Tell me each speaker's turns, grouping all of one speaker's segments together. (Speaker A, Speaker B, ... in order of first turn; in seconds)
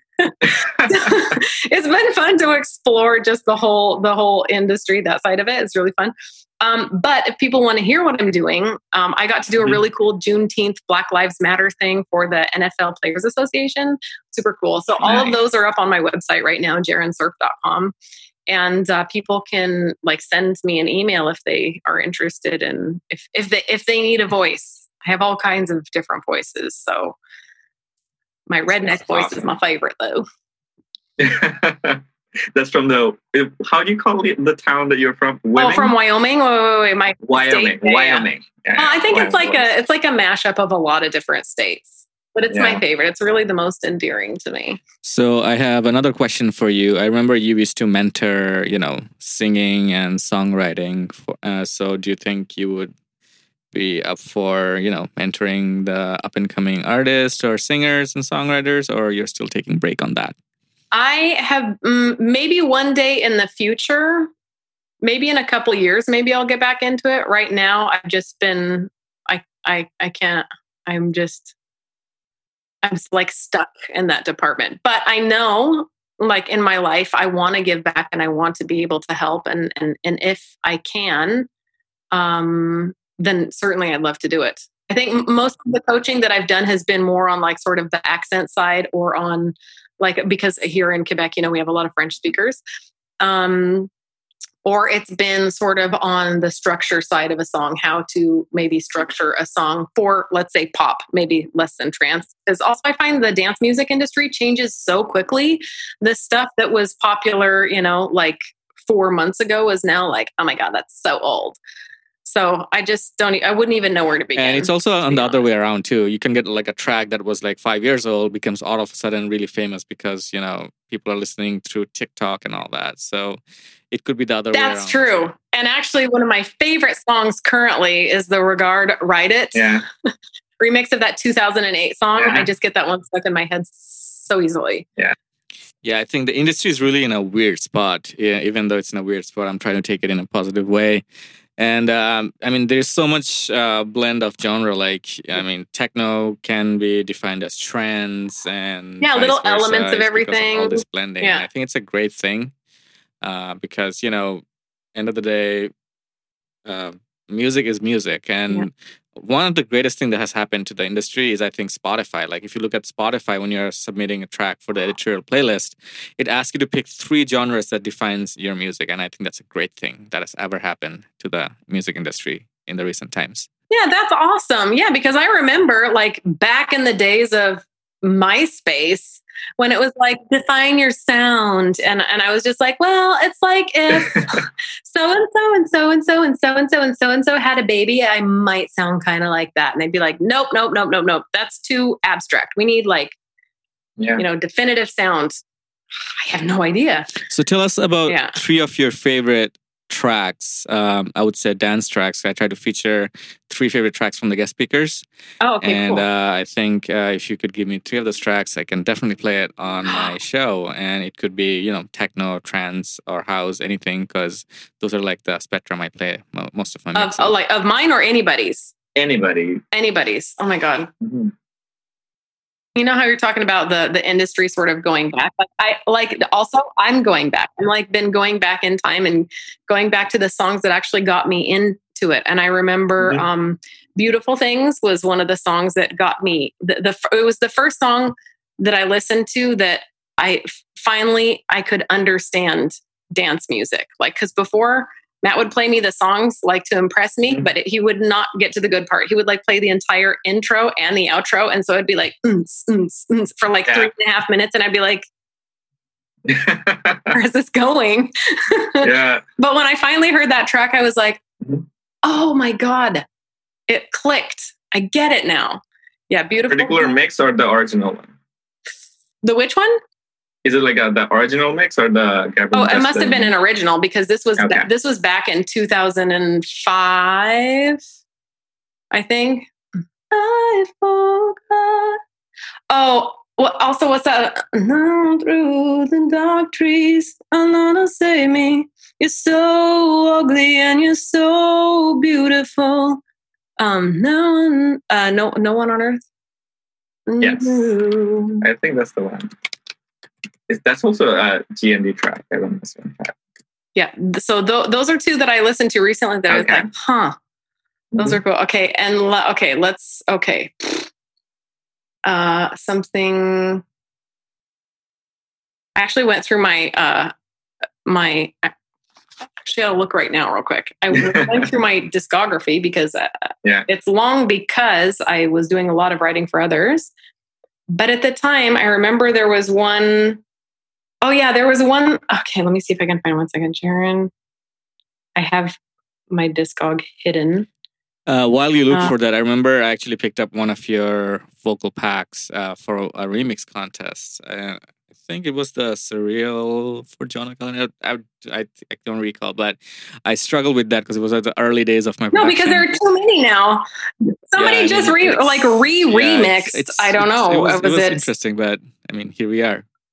Speaker A: 0.2-17.9, 18.5-27.2, 28.5-30.2, 35.5-44.8, 60.9-64.3, 65.0-71.5, 72.8-81.5, 82.1-92.6, 93.2-93.9, 94.6-111.6, 112.2-115.4, 124.5-129.8, 130.6-134.9, 149.0-151.4, 173.7-193.2, 194.2-195.4, 196.2-197.1, 198.1-198.4, 205.4-206.1, 216.9-218.7, 219.7-220.9, 222.8-255.1, 257.1-261.2, 262.0-263.0, 263.7-267.0, 269.2-269.8, 272.5-277.8, 278.9-279.5, 280.1-282.0, 282.7-293.0, 293.6-296.0, 297.1-298.4, 303.7-307.1, 308.0-310.9, 312.1-313.6, 315.8-317.1, 317.9-318.5, 319.4-326.9, 327.7-330.2, 331.0-334.1, 335.1-335.6, 336.1-337.5, 352.1-353.6, 354.3-358.1
Speaker B: 0.5-0.9, 15.0-15.4, 28.8-29.4, 31.2-35.9, 37.2-39.6, 42.5-42.8, 129.5-129.8, 132.2-132.4, 184.0-184.4, 194.0-194.2, 218.9-219.6, 221.0-221.3, 233.0-233.2, 256.2-257.1, 258.8-259.2, 266.5-268.1, 270.4-273.3, 274.4-274.7, 297.2-297.7, 298.4-299.3, 300.5-303.1, 306.3-306.6
Speaker C: 45.0-52.9, 53.7-60.4, 114.4-123.4, 123.9-125.0, 135.8-141.0, 141.6-152.5, 153.2-154.4, 154.9-155.7, 156.6-173.5, 197.3-205.0, 205.6-217.3, 338.1-352.7, 354.4-359.6